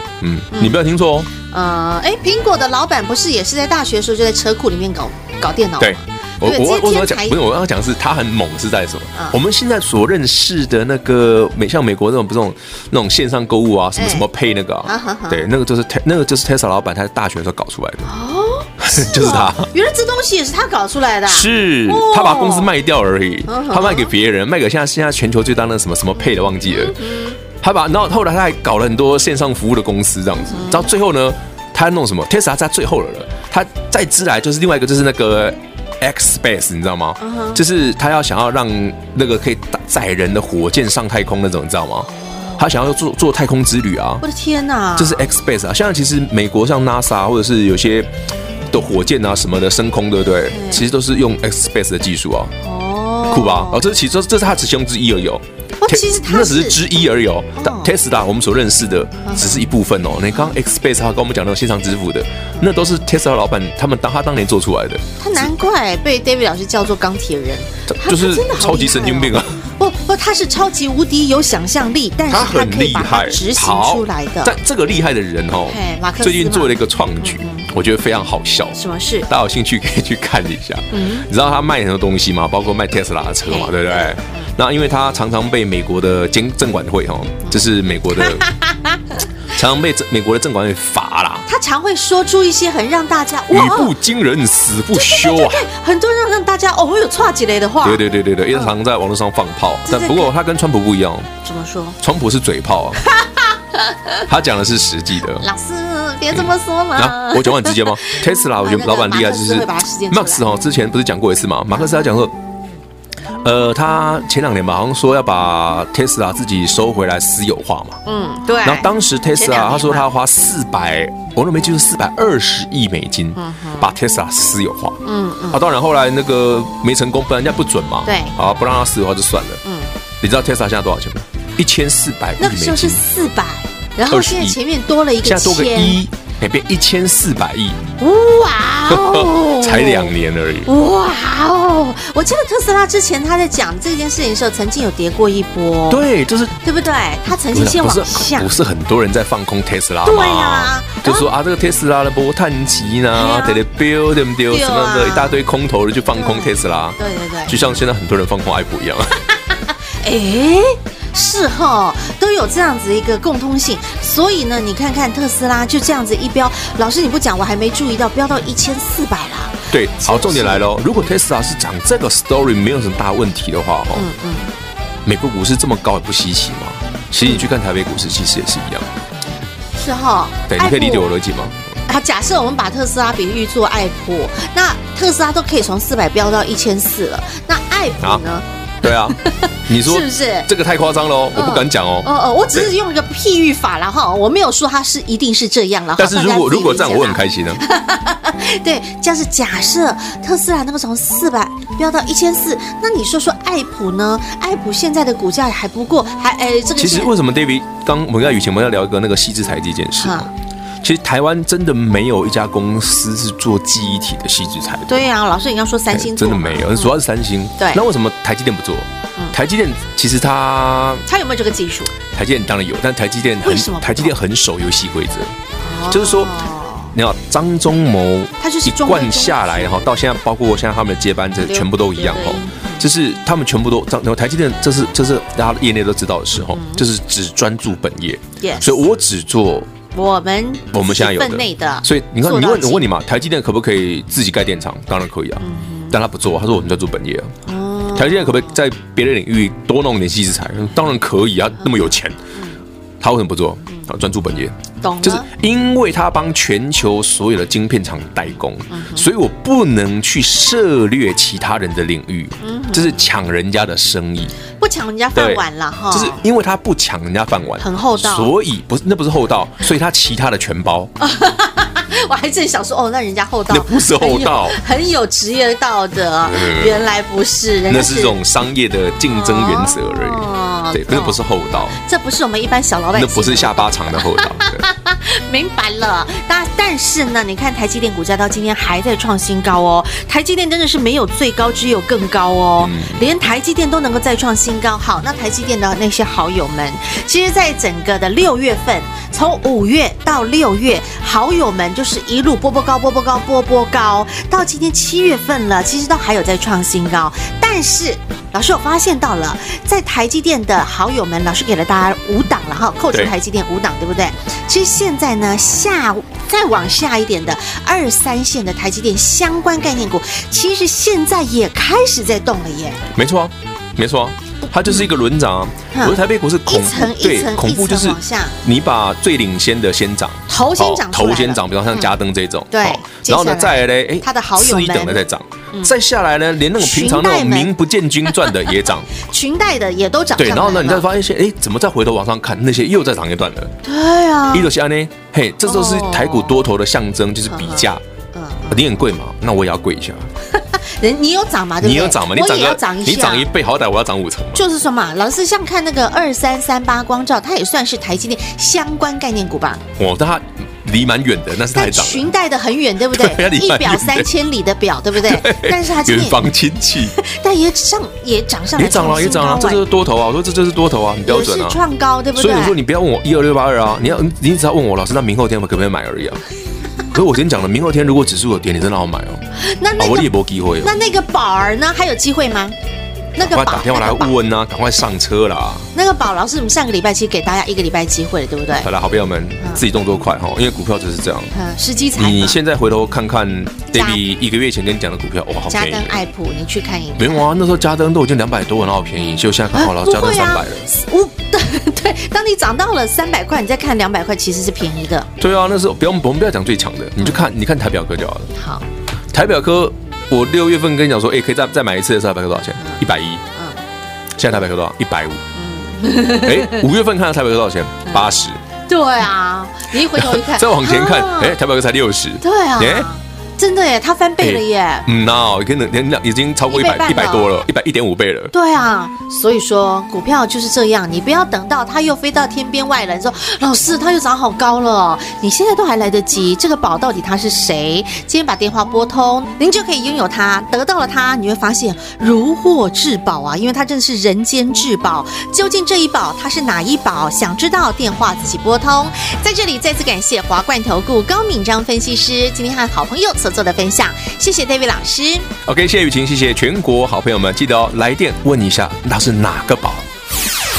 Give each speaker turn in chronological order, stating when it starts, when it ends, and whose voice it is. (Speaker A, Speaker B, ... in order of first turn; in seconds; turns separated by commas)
Speaker A: 0.2-1.3, Speaker B: 0.5-0.8, Speaker B: 1.3-7.4, Speaker A: 5.8-18.1, Speaker B: 14.0-14.2, Speaker B: 14.8-15.4, Speaker B: 18.1-22.7, Speaker A: 18.8-19.7, Speaker A: 21.3-27.0, Speaker B: 23.5-24.1, Speaker B: 26.2-27.4, Speaker A: 27.6-44.2, Speaker B: 30.5-30.9, Speaker B: 37.2-37.6, Speaker B: 42.1-42.6, Speaker B: 44.2-45.2, Speaker A: 45.0-48.1, Speaker A: 48.7-52.5, Speaker B: 50.5-50.8, Speaker B: 52.6-53.8, Speaker A: 53.3-65.4, Speaker B: 55.8-56.8, Speaker B: 57.6-57.9, Speaker B: 59.2-59.6, Speaker B: 65.2-74.6, Speaker A: 67.9-69.6, Speaker A: 72.3-88.5, Speaker B: 75.7-77.7, Speaker B: 78.7-79.3, Speaker B: 80.9-81.2, Speaker B: 83.5-84.5, Speaker B: 88.2-89.2, Speaker A: 89.5-91.5, Speaker B: 91.5-93.9, Speaker A: 93.5-95.7, Speaker B: 94.9-98.0, Speaker A: 97.8-101.3, Speaker B: 99.9-100.3, Speaker B: 101.4-102.0, Speaker A: 102.0-103.0, Speaker B: 103.1-104.2, Speaker A: 104.3-105.5, Speaker B: 105.4-110.5, Speaker A: 106.3-112.3, Speaker A: 113.4-118.0, Speaker B: 118.0-120.1, Speaker A: 118.6-125.0, Speaker B: 123.3-123.9, Speaker B: 125.0-125.6, Speaker A: 125.5-129.6, Speaker B: 128.1-128.3, Speaker B: 129.6-129.9, Speaker A: 130.2-133.0, Speaker B: 132.4-136.0, Speaker A: 134.1-134.6, Speaker A: 135.2-137.8, Speaker B: 138.0-140.1, Speaker A: 138.9-140.7, Speaker B: 140.6-146.0, Speaker A: 145.9-146.6, Speaker B: 146.6-148.5, Speaker A: 147.5-159.2, Speaker B: 150.1-151.3, Speaker B: 153.1-153.6, Speaker B: 154.5-155.4, Speaker B: 156.1-157.6, Speaker B: 160.0-170.6, Speaker A: 169.7-174.1, Speaker B: 173.9-174.5, Speaker A: 175.1-178.9, Speaker B: 177.2-177.5, Speaker B: 179.7-181.1, Speaker A: 180.5-181.6, Speaker B: 181.9-188.4, Speaker A: 188.8-192.7, Speaker B: 189.2-190.5, Speaker B: 191.3-207.1, Speaker A: 196.0-197.6, Speaker A: 206.7-210.3, Speaker B: 210.0-210.3, Speaker A: 210.8-215.1, Speaker B: 214.9-216.9, Speaker A: 215.9-221.0, Speaker B: 217.6-217.8, Speaker B: 221.1-221.9, Speaker A: 222.1-225.3, Speaker B: 223.4-224.2, Speaker B: 225.6-226.9, Speaker A: 225.9-226.3, Speaker A: 226.9-239.7, Speaker B: 228.4-229.9, Speaker B: 231.5-232.9, Speaker B: 236.5-236.8, Speaker B: 238.4-238.8, Speaker B: 239.9-242.8, Speaker A: 240.7-247.3, Speaker B: 245.4-245.9, Speaker B: 247.4-248.6, Speaker A: 247.9-252.2, Speaker A: 253.0-264.3, Speaker B: 254.8-255.2, Speaker B: 258.7-259.1, Speaker B: 262.4-262.9, Speaker B: 264.6-266.2, Speaker A: 265.1-270.9, Speaker B: 267.6-268.3, Speaker B: 271.0-278.2, Speaker A: 273.5-274.6, Speaker A: 276.2-276.9, Speaker A: 277.7-281.8, Speaker B: 279.1-322.8, Speaker A: 282.9-284.7, Speaker A: 292.6-293.1, Speaker A: 322.9-338.9, Speaker B: 325.7-328.4, Speaker B: 330.3-331.9, Speaker B: 332.5-335.7, Speaker B: 336.6-337.5, Speaker B: 338.1-340.9, Speaker A: 340.2-343.5, Speaker B: 343.6-344.5, Speaker A: 344.3-347.8, Speaker B: 345.4-346.4, Speaker B: 347.3-348.7, Speaker A: 348.5-350.1, Speaker B: 350.4-353.3, Speaker A: 351.6-354.4, Speaker B: 354.3-359.6, Speaker A: 359.8-362.1, Speaker B: 361.5-366.2, Speaker A: 362.9-364.1, Speaker A: 365.0-367.0, Speaker B: 367.0-369.6, Speaker A: 368.5-371.6, Speaker B: 371.1-372.5, Speaker A: 372.1-376.2, Speaker A: 376.9-379.2, Speaker B: 379.4-380.1, Speaker A: 379.8-380.7, Speaker B: 380.6-382.6, Speaker B: 383.1-384.1, Speaker A: 383.2-385.7, Speaker B: 385.7-388.7, Speaker A: 388.6-391.3, Speaker B: 391.3-392.4, Speaker A: 392.0-396.0, Speaker B: 393.7-394.0, Speaker B: 395.5-397.2, Speaker A: 397.0-400.8, Speaker B: 399.0-405.1, Speaker A: 405.2-408.3, Speaker B: 408.4-408.6, Speaker A: 409.1-413.2, Speaker A: 414.2-415.2, Speaker B: 415.4-416.7, Speaker A: 416.2-418.4, Speaker B: 418.7-421.4, Speaker A: 419.9-422.9, Speaker B: 422.2-424.9, Speaker A: 424.2-428.3, Speaker B: 426.5-427.3, Speaker B: 428.3-455.3, Speaker A: 455.5-459.9